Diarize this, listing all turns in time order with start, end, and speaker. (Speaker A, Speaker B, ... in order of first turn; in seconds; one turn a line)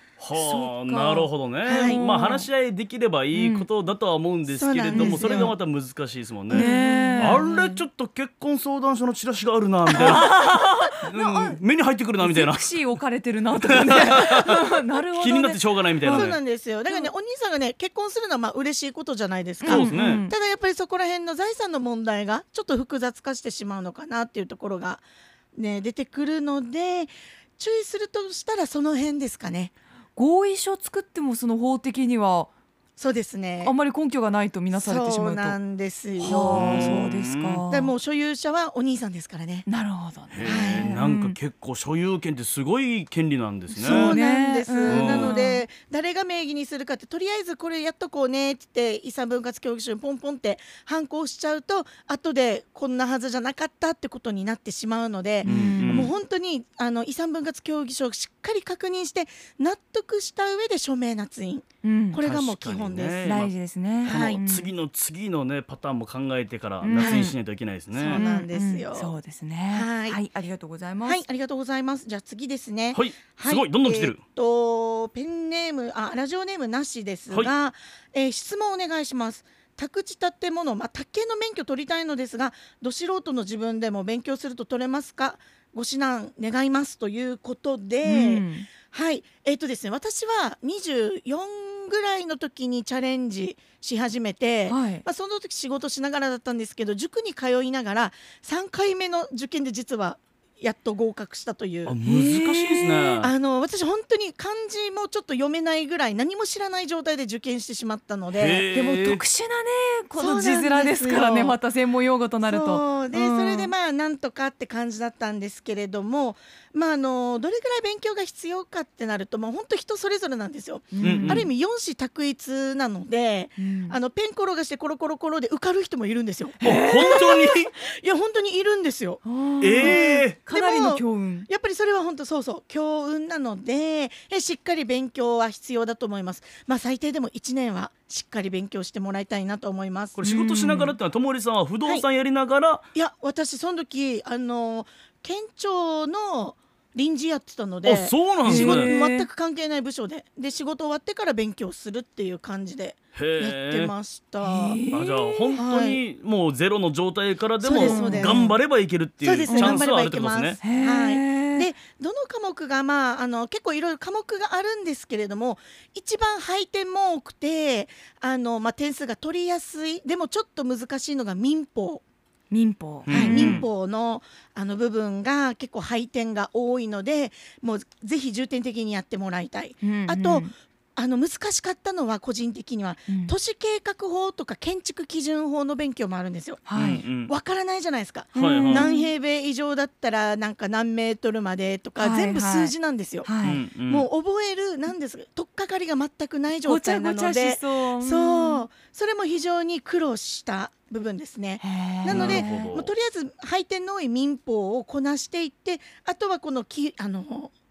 Speaker A: 0.2-12.7
Speaker B: 0.3-2.5
Speaker C: 1.7-2.0
Speaker B: 3.3-3.7
Speaker C: 4.5-5.5
Speaker B: 4.9-5.5
Speaker C: 6.5-7.8
Speaker B: 6.5-7.5
Speaker B: 9.9-11.6
Speaker C: 10.0-10.3
Speaker B: 12.2-16.3
Speaker A: 13.6-16.4
Speaker C: 16.0-29.7
Speaker B: 19.6-20.3
Speaker A: 19.6-20.2
Speaker B: 30.1-32.5
Speaker C: 33.0-33.7
Speaker B: 33.6-35.6
Speaker C: 34.7-37.1
Speaker B: 36.2-37.9
Speaker A: 36.2-37.6
Speaker C: 37.7-39.7
Speaker B: 39.7-41.4
Speaker A: 40.3-44.2
Speaker C: 40.4-41.0
Speaker C: 43.8-63.4
Speaker B: 43.8-45.6
Speaker A: 44.9-45.4
Speaker B: 55.4-56.1
Speaker A: 55.4-56.1
Speaker B: 61.8-62.2
Speaker A: 62.2-68.2
Speaker B: 63.2-64.7
Speaker C: 64.0-64.4
Speaker B: 66.8-67.3
Speaker C: 66.9-67.3
Speaker C: 67.9-69.1
Speaker B: 68.1-71.2
Speaker C: 69.7-70.2
Speaker C: 71.0-102.0
Speaker A: 72.9-74.2
Speaker B: 88.0-88.7
Speaker B: 94.7-95.0
Speaker A: 101.8-103.3
Speaker B: 102.0-103.2
Speaker C: 103.2-108.7
Speaker A: 108.3-109.2
Speaker B: 108.7-113.7
Speaker C: 110.2-111.6
Speaker C: 112.4-140.2
Speaker B: 120.9-121.5
Speaker A: 121.0-121.5
Speaker B: 123.6-123.9
Speaker B: 126.6-127.4
Speaker A: 126.6-127.7
Speaker B: 129.2-131.5
Speaker A: 129.6-130.4
Speaker A: 140.1-142.8
Speaker B: 140.2-140.9
Speaker C: 142.9-154.8
Speaker A: 147.8-148.9
Speaker B: 148.5-149.3
Speaker A: 153.1-153.9
Speaker B: 154.4-155.6
Speaker A: 154.9-160.6
Speaker C: 155.5-156.0
Speaker C: 157.6-158.6
Speaker B: 157.7-158.5
Speaker C: 159.2-172.0
Speaker B: 159.5-159.8
Speaker B: 160.6-161.7
Speaker B: 172.5-173.6
Speaker A: 173.1-173.7
Speaker C: 173.1-193.3
Speaker B: 179.8-180.5
Speaker B: 183.1-183.3
Speaker B: 186.7-187.0
Speaker A: 186.7-187.3
Speaker B: 188.3-189.1
Speaker A: 188.3-188.9
Speaker B: 192.0-193.6
Speaker A: 193.4-194.1
Speaker C: 193.8-207.5
Speaker B: 196.6-198.7
Speaker B: 201.6-202.7
Speaker A: 202.1-202.9